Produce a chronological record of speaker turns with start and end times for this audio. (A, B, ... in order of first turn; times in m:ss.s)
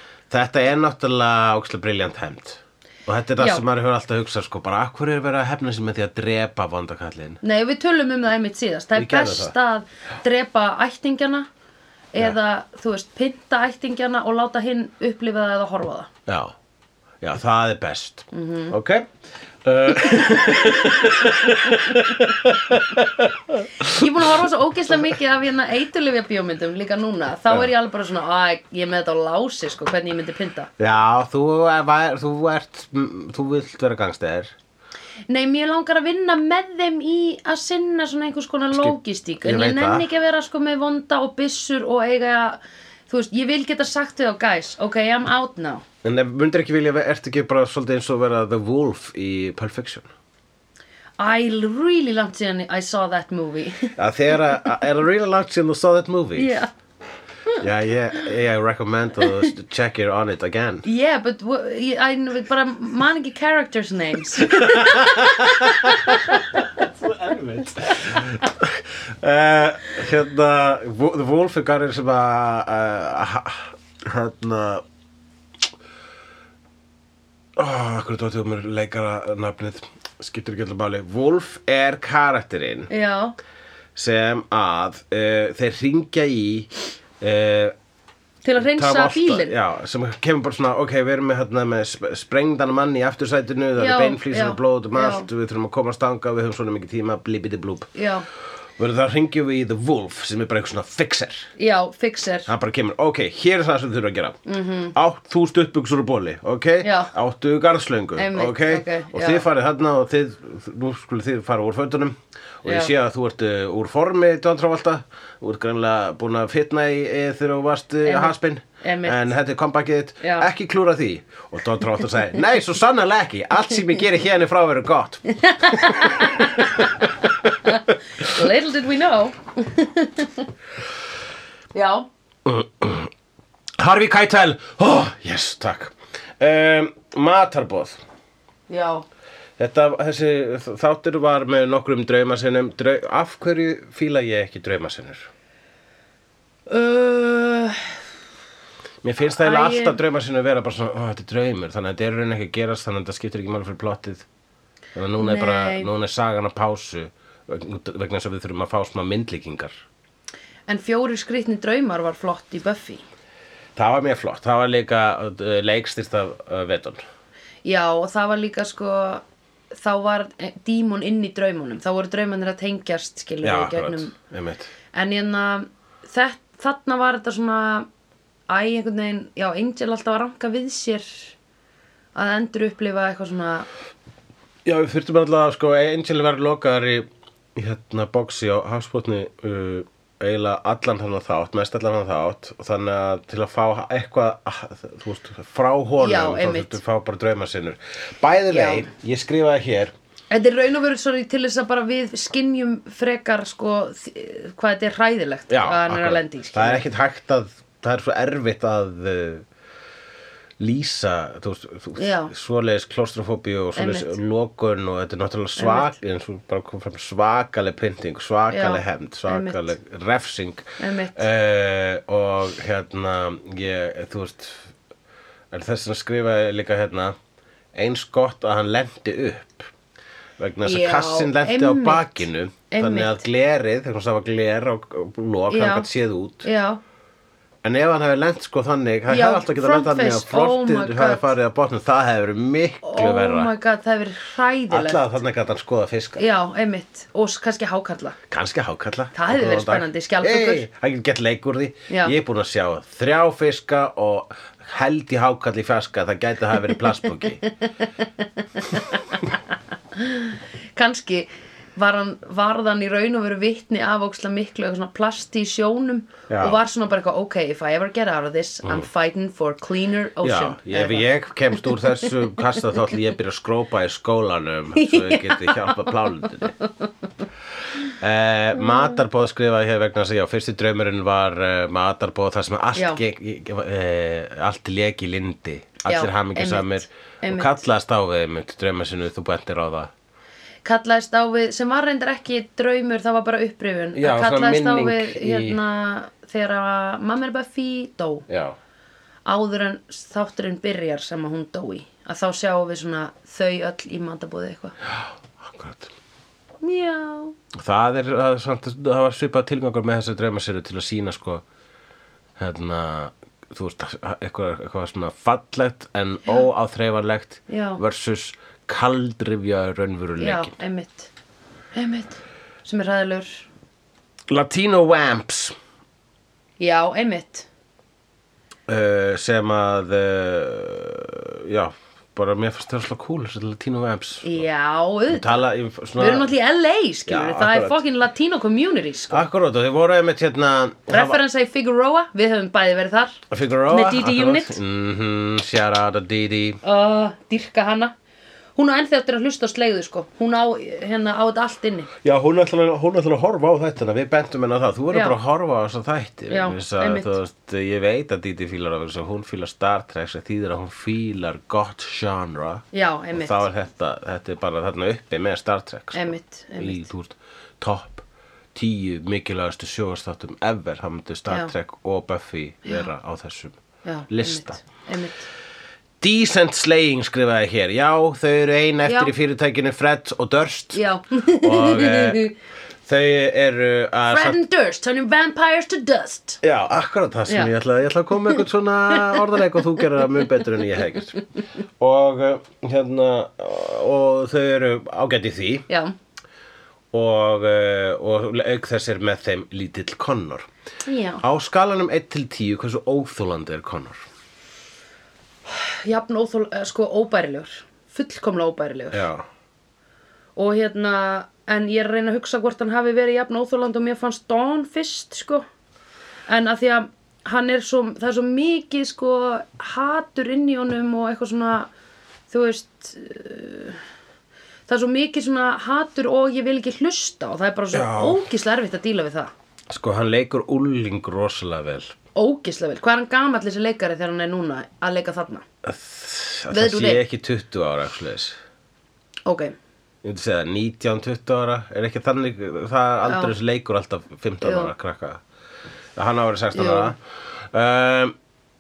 0:00.3-0:07.4 A
0:03.4-0:03.6 B
0:07.4-0:11.5 B
0:09.0-0:09.6 A
0:12.1-0:16.1 B
0:16.3-0:16.5 A
0:17.2-0:19.1 A
0:18.3-0:18.7 B
0:19.6-0:24.4 A
0:23.9-0:30.7 B
0:30.8-0:34.5 A
0:35.3-0:45.8 B
0:38.7-0:40.1 A
0:46.0-0:50.1 A
0:51.2-0:54.8 B
0:54.0-0:56.6 A
0:56.4-0:56.7 B
0:57.6-1:00.9 A
0:59.2-0:59.5 B
1:00.8-1:06.4 B
1:04.4-1:14.8 A
1:17.6-1:22.9 A
1:22.9-1:23.4 B
1:24.0-1:26.7 A
1:27.2-1:27.8 A
1:28.4-1:29.5 B
1:28.6-1:37.9 A
1:33.8-1:35.3 B
1:38.0-1:38.2 B
1:38.8-1:41.5 A
1:41.6-1:42.5 B
1:42.5-1:44.4 A
1:44.5-1:45.0 B
1:44.9-2:07.1 A
1:46.8-1:47.1 B
1:48.2-1:49.5 B
1:52.7-1:52.9 B
1:58.0-1:59.3 B
2:00.2-2:00.5 B
2:05.3-2:10.5 B
2:11.7-2:12.1 B
2:12.4-2:13.1 A
2:13.8-2:18.0 A
2:18.7-2:19.1 B
2:19.6-2:25.3 A
2:26.7-2:28.0 B
2:29.0-2:34.2 A
2:29.4-2:30.0 B
2:35.0-2:39.8 A
2:35.2-2:35.9 B
2:40.7-2:43.0 B
2:43.8-2:47.0 A
2:47.6-2:54.1 B
2:53.4-2:54.7 A
2:54.9-2:57.9 B
2:58.5-3:01.3 B
3:02.2-3:03.7 B
3:04.6-3:19.9 A
3:16.0-3:16.8 B
3:18.5-3:18.9 B
3:20.3-3:26.9 B
3:25.5-3:29.5 A
3:30.6-3:44.7 A
3:32.0-3:32.3 B
3:33.8-3:34.2 B
3:35.6-3:35.9 B
3:38.5-3:39.7 B
3:40.8-3:41.2 B
3:45.5-3:47.1 A
3:47.8-3:49.7 A
3:50.4-3:56.5 A
3:50.6-3:53.2 B
3:55.5-3:55.9 B
3:56.4-3:56.8 B
3:57.6-4:03.5 A
3:59.1-4:01.3 B
4:02.8-4:05.1 B
4:04.7-4:06.3 A
4:06.2-4:08.2 B
4:08.3-4:17.4 A
4:09.1-4:10.6 B
4:11.9-4:12.1 B
4:17.5-4:19.4 B
4:19.9-4:32.3 B
4:26.3-4:26.6 A
4:30.2-4:36.6 A
4:34.8-4:35.9 B
4:36.6-4:36.9 B
4:37.9-4:49.9 A
4:38.6-4:38.9 B
4:42.8-4:43.0 B
4:45.9-4:47.6 B
4:50.6-4:58.3 B
4:53.9-4:55.6 A
4:58.3-4:58.6 A
4:59.2-5:04.8 B
5:04.9-5:05.9 A
5:06.6-5:07.4 B
5:07.5-5:11.4 A
5:12.4-5:20.6 A
5:17.5-5:17.8 B
5:20.2-5:21.1 B
5:21.7-5:23.5 B
5:24.3-5:25.6 A
5:26.6-5:27.5 B
5:28.7-5:34.4 A
5:34.2-5:39.2 B
5:35.1-5:36.3 A
5:37.1-5:37.8 A
5:39.1-5:41.2 A
5:40.9-5:44.6 B
5:43.3-5:46.6 A
5:46.6-5:47.9 B
5:48.6-5:51.9 B
5:52.0-6:08.0 A
5:54.9-5:55.2 B
5:56.3-5:57.1 B
6:02.7-6:03.5 B
6:05.9-6:06.9 B
6:08.6-6:13.6 A
6:13.8-6:15.3 B
6:14.1-6:14.6 A
6:16.0-6:22.3 A
6:18.8-6:19.1 B
6:20.7-6:22.3 B
6:22.9-6:24.4 A
6:24.1-6:26.4 B
6:26.4-6:31.2 A
6:27.3-6:27.5 B
6:28.3-6:29.8 B
6:31.8-6:35.7 A
6:35.7-6:35.9 B
6:36.9-6:40.5 A
6:40.9-6:41.2 B
6:41.2-6:44.0 A
6:45.5-6:49.1 B
6:48.9-6:49.3 A
6:50.4-6:55.4 B
6:56.3-7:01.7 B
7:02.3-7:03.8 B
7:04.7-7:09.3 B
7:07.7-7:08.2 A
7:09.7-7:11.9 A
7:12.1-7:15.4 B
7:15.6-7:18.4 A
7:16.5-7:17.0 B
7:19.2-7:19.6 B
7:20.0-7:25.2 A
7:23.1-7:23.3 B
7:24.4-7:24.7 B
7:26.0-7:27.0 A
7:26.5-7:26.9 B
7:27.5-7:28.1 A